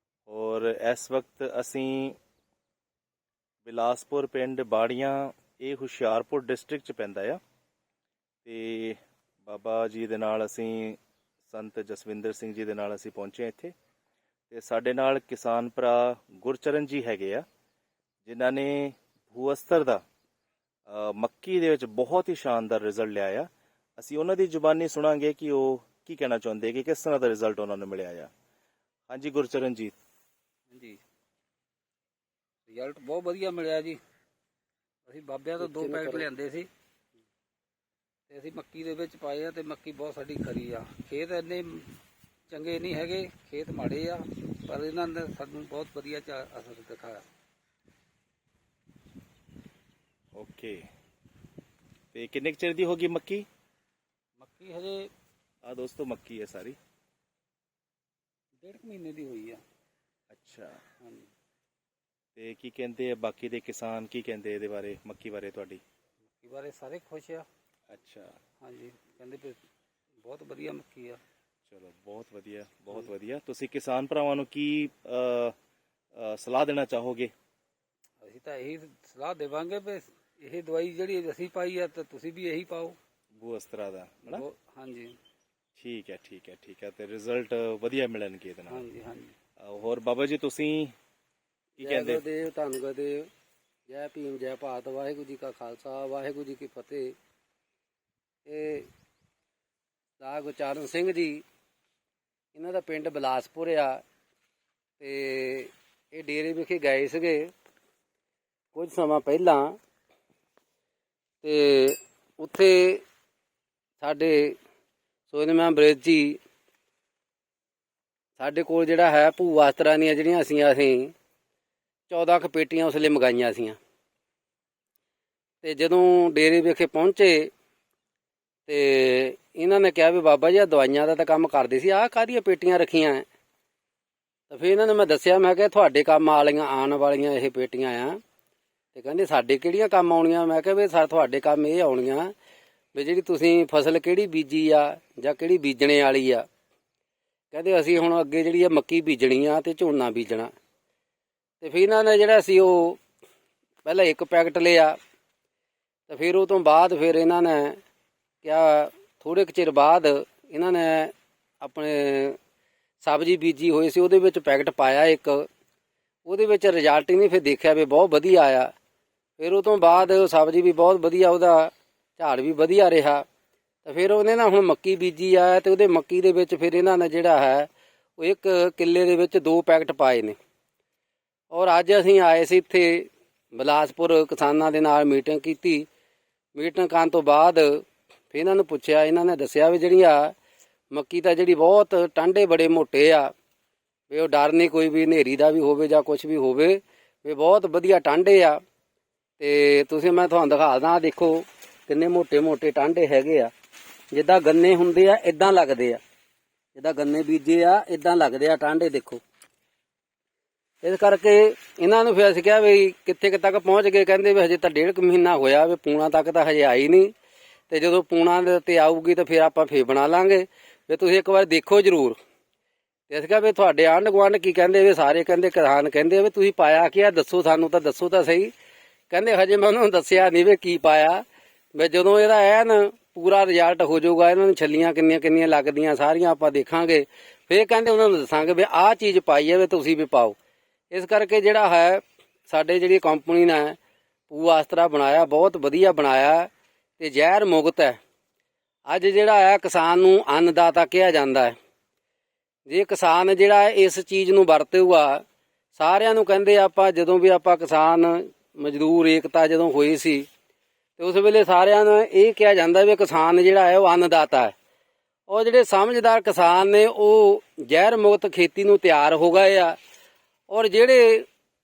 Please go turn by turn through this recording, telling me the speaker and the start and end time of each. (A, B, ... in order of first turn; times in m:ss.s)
0:00.3-0:02.2 A
0:03.6-0:07.4 A
0:08.4-0:13.7 A
0:14.5-0:17.4 A
0:18.2-0:20.0 A
0:20.9-0:28.3 A
0:29.1-0:30.0 A
0:30.7-0:31.0 B
0:32.7-0:34.0 B
0:35.1-0:36.7 B
0:35.6-0:36.3 C
0:38.3-0:41.9 B
0:42.5-0:47.2 B
0:50.3-0:50.8 A
0:52.1-0:53.5 A
0:54.4-0:55.1 B
0:55.6-0:56.8 A
0:58.6-0:59.6 B
1:00.3-1:00.8 A
1:01.0-1:01.3 B
1:02.4-1:05.8 A
1:06.4-1:07.4 B
1:07.9-1:08.4 A
1:08.6-1:09.6 B
1:10.2-1:11.2 B
1:11.7-1:15.5 A
1:16.2-1:17.3 A
1:18.2-1:23.0 B
1:23.4-1:24.4 A
1:24.2-1:25.2 B
1:25.8-1:28.8 A
1:28.7-1:29.3 B
1:29.6-1:30.9 A
1:31.8-1:32.2 A
1:31.8-1:33.3 C
1:33.9-1:37.2 C
1:38.4-1:38.9 C
1:40.2-1:41.4 C
1:42.5-1:44.0 C
1:45.0-1:47.5 C
1:48.7-1:49.8 C
1:51.4-1:53.0 C
1:54.0-1:54.6 C
1:55.3-1:56.4 C
1:58.4-2:01.1 C
2:02.1-2:03.8 C
2:05.6-2:07.5 C
2:08.7-2:13.2 C
2:14.5-2:18.2 C
2:18.9-2:22.3 C
2:22.9-2:26.4 C
2:27.5-2:30.5 C
2:31.6-2:33.0 C
2:33.8-2:35.0 C
2:36.1-2:37.8 C
2:38.4-2:42.4 C
2:43.0-2:45.5 C
2:46.2-2:48.7 C
2:49.4-2:53.2 C
2:53.8-3:00.3 C
3:01.5-3:05.9 C
3:06.6-3:10.3 C
3:10.9-3:13.3 C
3:14.1-3:18.6 C
3:19.4-3:23.5 C
3:24.1-3:26.0 C
3:26.8-3:29.2 C
3:30.8-3:37.1 C
3:37.7-3:42.2 C
3:43.1-3:48.5 C
3:49.1-3:51.2 C
3:51.8-4:00.4 C
4:00.9-4:03.8 C
4:04.3-4:08.0 C
4:08.9-4:11.6 C
4:12.7-4:15.2 C
4:15.8-4:20.3 C
4:21.0-4:24.5 C
4:25.3-4:29.8 C
4:30.5-4:31.3 C